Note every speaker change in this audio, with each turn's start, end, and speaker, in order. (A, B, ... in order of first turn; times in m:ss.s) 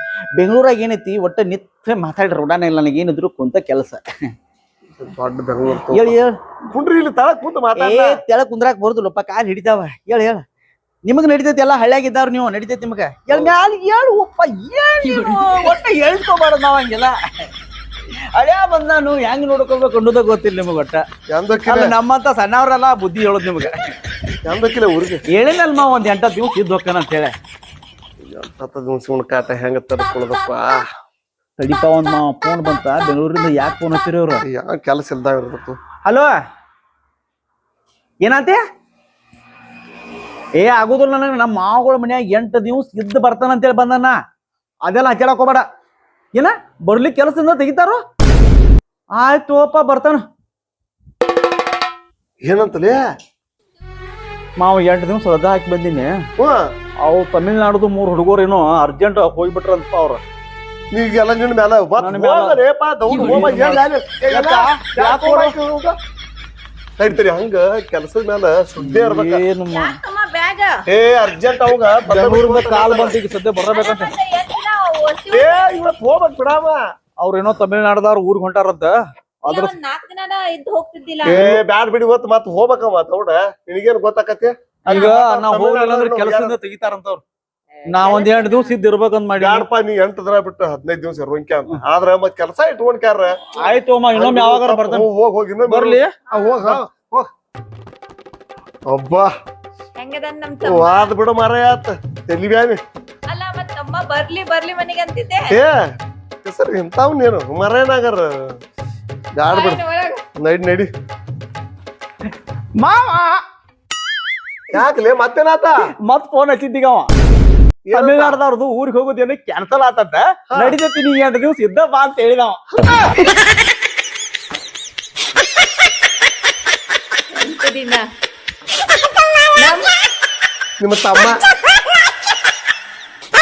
0:00.4-0:04.0 A
0:05.0-0:06.2 B
0:05.9-0:06.4 A
0:06.7-0:08.2 B
0:07.8-0:10.4 A
0:11.1-0:17.2 A
0:13.3-0:13.6 B
0:18.4-0:21.0 A
0:21.3-0:22.0 B
0:21.7-0:23.8 A
0:24.4-0:25.2 B
0:25.3-0:27.4 A
0:28.2-0:30.8 B
0:31.6-0:34.4 A
0:34.4-0:35.8 B
0:36.0-0:36.3 A
0:38.2-0:38.6 A
0:40.6-0:44.2 A
0:44.8-0:45.6 A
0:46.3-0:48.0 A
0:49.2-0:50.2 A
0:52.4-0:53.0 B
0:54.6-0:56.2 A
0:56.4-0:56.7 B
0:57.0-1:00.2 A
1:00.9-1:06.0 B
1:02.0-1:05.6 A
1:07.0-1:09.4 B
1:08.8-1:10.0 A
1:09.7-1:10.8 C
1:10.9-1:13.2 B
1:12.1-1:14.1 A
1:13.7-1:15.7 C
1:15.3-1:16.8 B
1:17.2-1:19.0 A
1:19.5-1:19.7 A
1:19.5-1:21.4 C
1:21.2-1:26.6 B
1:21.3-1:21.6 A
1:24.9-1:27.2 A
1:27.8-1:28.7 C
1:27.9-1:29.7 A
1:29.4-1:33.4 B
1:33.6-1:35.1 A
1:34.2-1:37.3 B
1:35.7-1:36.2 A
1:36.3-1:36.6 C
1:38.9-1:39.3 B
1:40.0-1:41.1 C
1:40.6-1:42.8 B
1:43.3-1:45.5 C
1:45.5-1:45.8 B
1:46.4-1:48.6 B
1:49.4-1:49.8 B
1:49.5-1:50.2 C
1:50.4-1:50.9 B
1:52.8-1:53.4 A
1:54.7-1:55.8 B
1:56.0-1:57.1 A
1:57.8-1:58.4 B
1:57.9-2:02.7 A
2:07.3-2:08.0 C
2:09.6-2:09.9 C
2:10.8-2:11.4 B